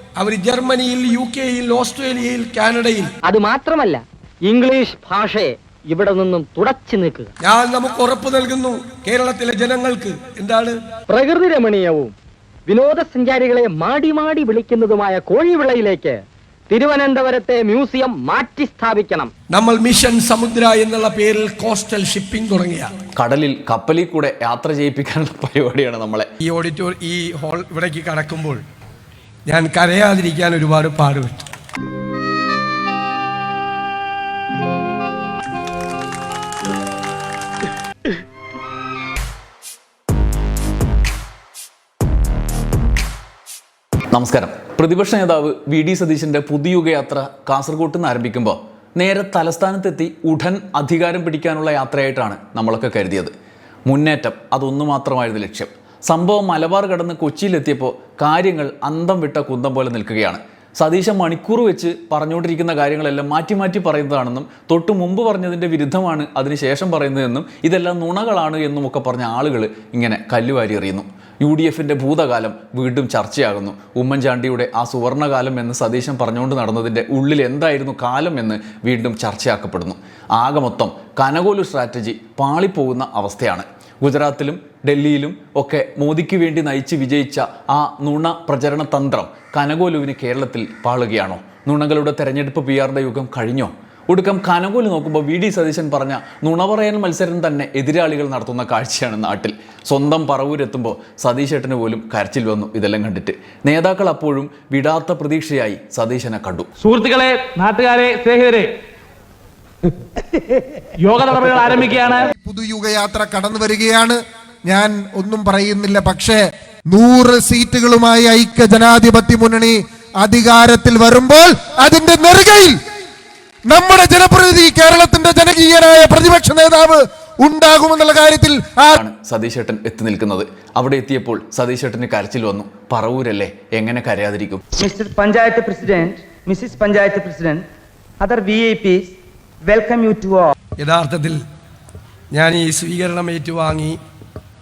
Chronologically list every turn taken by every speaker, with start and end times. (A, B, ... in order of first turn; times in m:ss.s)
0:00.2-0:03.1 A
0:03.2-0:07.3 B
0:07.4-0:10.8 A
0:11.1-0:12.1 B
0:12.7-0:19.3 B
0:19.5-0:22.9 A
0:23.2-0:26.3 C
0:26.4-0:28.6 A
0:29.5-0:31.4 A
0:44.1-0:53.3 C
0:53.9-1:00.4 C
1:00.9-1:46.7 C
1:46.8-1:48.7 D
1:51.0-1:52.3 D
1:52.4-2:02.8 E
2:03.7-2:09.0 E
2:09.0-2:14.6 C
2:14.8-2:17.6 F
2:18.2-2:19.1 F
2:19.6-2:20.5 F
2:20.8-2:21.4 A
2:22.3-2:24.0 A